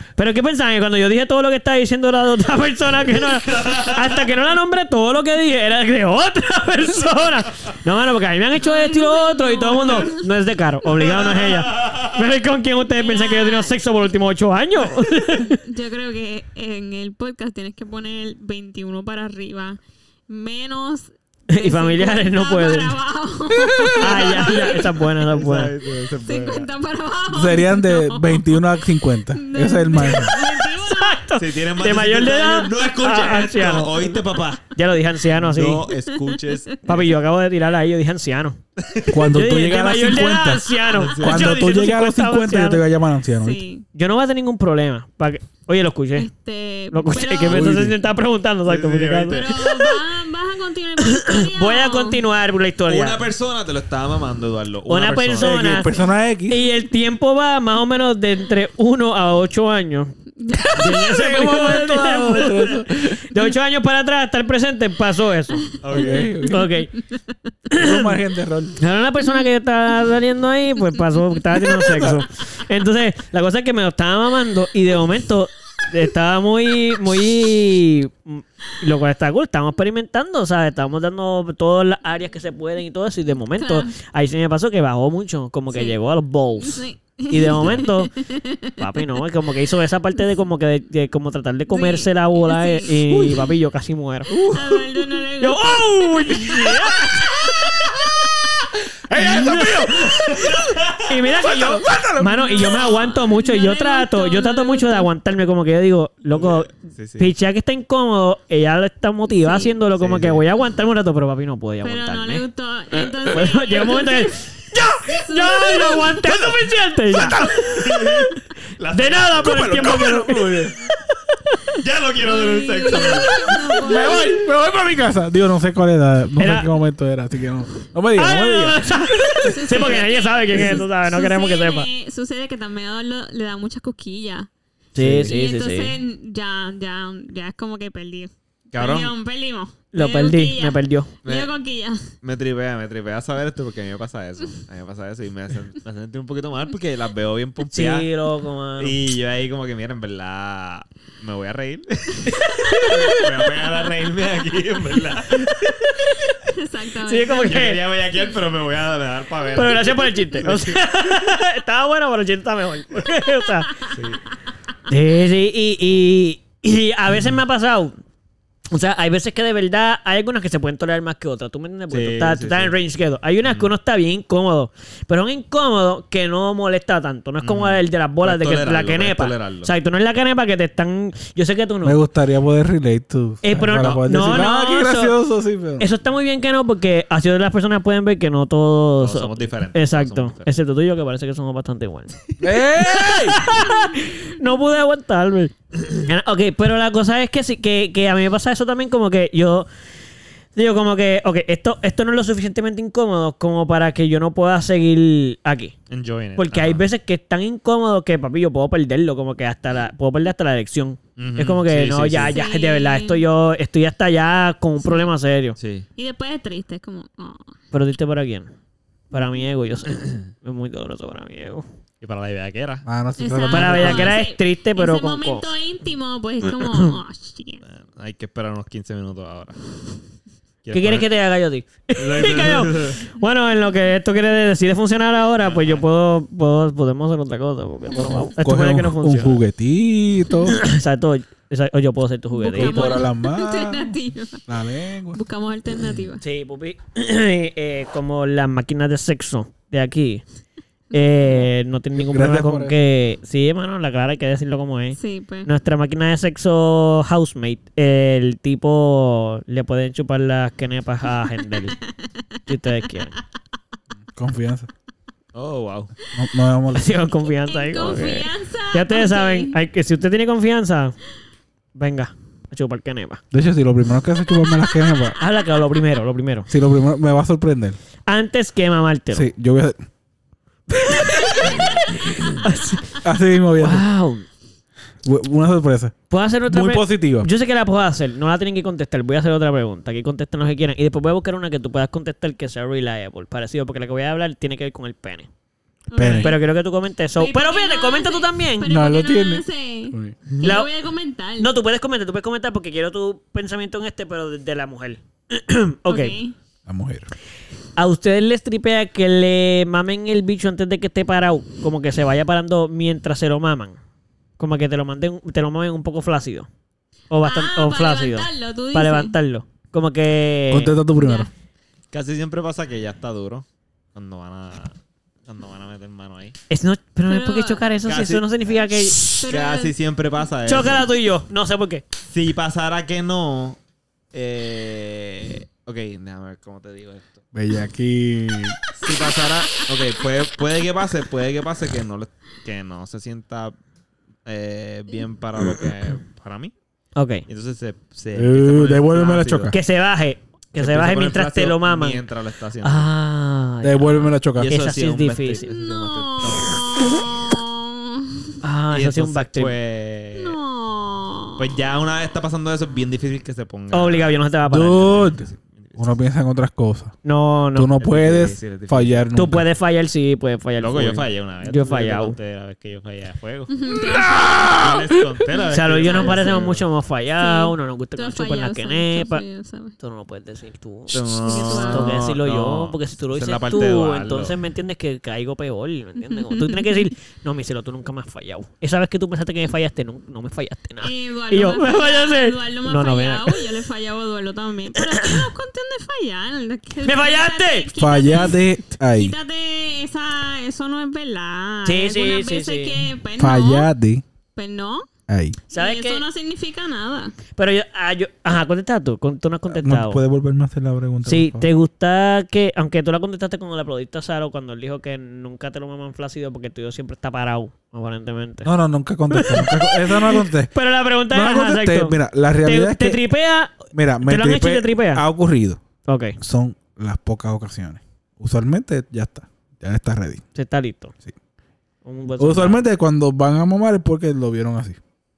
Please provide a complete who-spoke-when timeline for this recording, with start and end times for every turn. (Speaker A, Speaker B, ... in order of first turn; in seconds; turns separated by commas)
Speaker A: 0.1-15.6, Speaker B: 8.6-10.2, Speaker B: 11.0-11.4, Speaker C: 11.4-12.0, Speaker B: 12.9-13.7, Speaker B: 15.4-24.8, Speaker A: 21.5-23.0, Speaker D: 23.7-24.1, Speaker A: 24.0-25.7, Speaker C: 24.2-26.7, Speaker B: 26.2-31.2, Speaker D: 27.3-30.3, Speaker A: 30.0-35.9, Speaker C: 31.4-34.7, Speaker C: 35.3-37.1, Speaker B: 35.9-36.5, Speaker A: 36.8-38.6, Speaker C: 38.8-39.1, Speaker D: 39.1-43.6, Speaker A: 39.2-42.8, Speaker C: 40.9-41.5, Speaker B: 43.4-43.8, Speaker A: 43.9-46.3, Speaker B: 46.1-47.7, Speaker A: 46.9-49.5, Speaker D: 47.5-48.0, Speaker C: 48.6-49.7, Speaker B: 49.3-52.2, Speaker A: 51.0-53.3, Speaker C: 52.9-55.6, Speaker A: 54.9-55.9, Speaker D: 55.4-56.6, Speaker A: 56.5-60.1, Speaker B: 60.4-61.1, Speaker A: 60.6-65.7, Speaker D: 60.8-63.4, Speaker C: 65.8-66.3, Speaker D: 65.9-66.7, Speaker A: 66.4-66.9, Speaker A: 67.7-68.1, Speaker D: 67.7-68.8, Speaker A: 68.8-88.1, Speaker D: 71.8-72.2, Speaker B: 83.6-83.9, Speaker B: 85.7-86.0, Speaker B: 86.6-88.8, Speaker C: 87.5-87.8, Speaker A: 88.8-94.3, Speaker B: 91.7-92.9, Speaker D: 93.1-93.4, Speaker D: 94.3-95.0, Speaker B: 94.5-96.7, Speaker A: 95.4-97.1, Speaker D: 96.3-97.8, Speaker D: 99.1-102.8, Speaker A: 99.2-100.1, Speaker C: 100.2-100.7, Speaker A: 101.0-118.4, Speaker B: 102.3-105.1, Speaker C: 106.3-107.3, Speaker C: 109.9-110.4, Speaker B: 111.8-114.4, Speaker B: 115.2-116.2, Speaker D: 117.1-117.8, Speaker C: 117.6-120.0, Speaker A: 118.9-120.7, Speaker D: 119.4-120.8, Speaker C: 121.8-123.8, Speaker B: 122.2-124.5, Speaker D: 123.8-128.9, Speaker A: 126.4-126.7, Speaker A: 128.1-131.9, Speaker B: 129.4-134.5, Speaker A: 134.9-136.0, Speaker D: 135.0-135.3, Speaker B: 135.1-142.1, Speaker C: 138.7-139.1, Speaker A: 139.9-141.1, Speaker C: 141.2-141.5, Speaker C: 142.2-148.1, Speaker A: 147.7-149.0, Speaker C: 148.8-155.9, Speaker A: 152.3-153.3, Speaker B: 156.3-157.7, Speaker A: 157.0-157.8, Speaker C: 157.3-161.1, Speaker A: 159.5-163.8, Speaker C: 163.9-164.2, Speaker A: 164.9-168.0, Speaker A: 168.7-182.0, Speaker C: 171.9-172.7, Speaker C: 173.4-173.7, Speaker C: 177.4-179.7, Speaker D: 181.8-185.9, Speaker A: 183.4-185.1, Speaker A: 185.8-199.7, Speaker C: 189.0-190.5, Speaker D: 192.4-193.4, Speaker A: 200.6-205.7, Speaker C: 205.9-206.8, Speaker A: 206.4-215.6, Speaker C: 211.2-212.4, Speaker B: 212.3-213.2, Speaker C: 215.6-215.9, Speaker B: 215.9-217.5, Speaker A: 217.7-218.5, Speaker A: 219.1-221.6, Speaker C: 222.0-222.8, Speaker D: 222.8-224.2, Speaker B: 223.2-227.6, Speaker A: 223.5-225.5, Speaker C: 227.6-229.6, Speaker C: 230.6-231.1, Speaker A: 230.7-239.4, Speaker C: 232.0-233.0, Speaker C: 235.4-235.8, Speaker D: 238.2-240.6, Speaker A: 240.5-243.0, Speaker B: 242.4-244.4, Speaker D: 242.5-245.2, Speaker B: 245.1-246.2, Speaker A: 246.2-250.2, Speaker A: 250.9-261.8, Speaker D: 251.9-252.8, Speaker B: 254.9-255.5, Speaker A: 262.4-263.2, Speaker D: 264.1-264.7, Speaker C: 265.3-265.9, Speaker D: 266.1-266.9, Speaker A: 266.7-270.9, Speaker B: 267.4-269.5, Speaker A: 271.7-273.2, Speaker D: 273.3-275.1, Speaker A: 275.2-276.5, Speaker D: 276.5-277.8, Speaker A: 278.1-279.3, Speaker D: 279.1-279.8, Speaker A: 280.7-283.0, Speaker D: 283.0-283.9, Speaker A: 283.6-284.3, Speaker D: 285.0-287.3, Speaker A: 286.1-295.3, Speaker B: 295.9-296.4, Speaker D: 295.9-296.3, Speaker A: 296.1-298.7, Speaker B: 297.1-301.5, Speaker D: 298.6-300.2, Speaker A: 300.4-300.7, Speaker A: 301.4-306.2, Speaker B: 305.9-306.3, Speaker D: 306.6-307.1, Speaker A: 307.8-313.8, Speaker A: 314.4-316.5, Speaker A: 317.1-320.7, Speaker B: 317.2-319.1, Speaker D: 320.5-321.3, Speaker B: 320.9-321.3, Speaker C: 321.9-324.7, Speaker C: 325.2-326.4, Speaker A: 326.5-329.2, Speaker B: 327.1-327.6, Speaker C: 327.9-328.3, Speaker C: 329.0-330.9, Speaker B: 329.2-329.7, Speaker A: 330.4-331.8, Speaker C: 332.1-333.6, Speaker C: 334.1-337.2, Speaker D: 337.3-338.6, Speaker C: 338.7-343.6, Speaker C: 344.2-346.5, Speaker A: 346.9-347.2, Speaker C: 347.3-349.6, Speaker D: 348.1-349.5, Speaker A: 349.5-352.0, Speaker C: 350.6-352.9, Speaker A: 352.6-355.5, Speaker D: 353.6-354.5, Speaker C: 354.4-356.6, Speaker B: 355.4-358.3, Speaker A: 358.4-359.5, Speaker C: 358.7-360.4, Speaker B: 360.1-361.4, Speaker C: 361.4-365.9, Speaker A: 363.7-365.1, Speaker D: 364.5-366.9, Speaker A: 367.0-367.7, Speaker D: 367.5-369.4, Speaker C: 367.8-369.1, Speaker A: 369.1-372.2, Speaker C: 370.6-373.5, Speaker B: 373.5-374.9, Speaker D: 373.9-374.7, Speaker C: 374.5-376.6, Speaker A: 375.5-379.2, Speaker B: 375.8-376.5, Speaker B: 377.2-379.8, Speaker A: 379.8-393.4, Speaker C: 380.9-384.4, Speaker B: 381.1-382.0, Speaker B: 386.0-386.8, Speaker B: 390.8-403.7, Speaker A: 394.8-395.2, Speaker A: 396.8-397.7, Speaker D: 397.8-399.1, Speaker A: 401.6-402.8, Speaker D: 403.2-404.0, Speaker B: 404.3-404.9, Speaker D: 405.1-405.4, Speaker B: 405.5-407.1, Speaker A: 405.5-406.0, Speaker A: 407.4-410.0, Speaker D: 409.5-411.5, Speaker A: 411.0-418.5, Speaker D: 418.4-420.5, Speaker A: 419.1-425.0, Speaker D: 421.1-423.0, Speaker D: 423.7-425.6, Speaker A: 425.9-426.2, Speaker D: 426.2-430.2, Speaker A: 430.3-430.9, Speaker A: 431.8-432.6, Speaker D: 432.2-434.8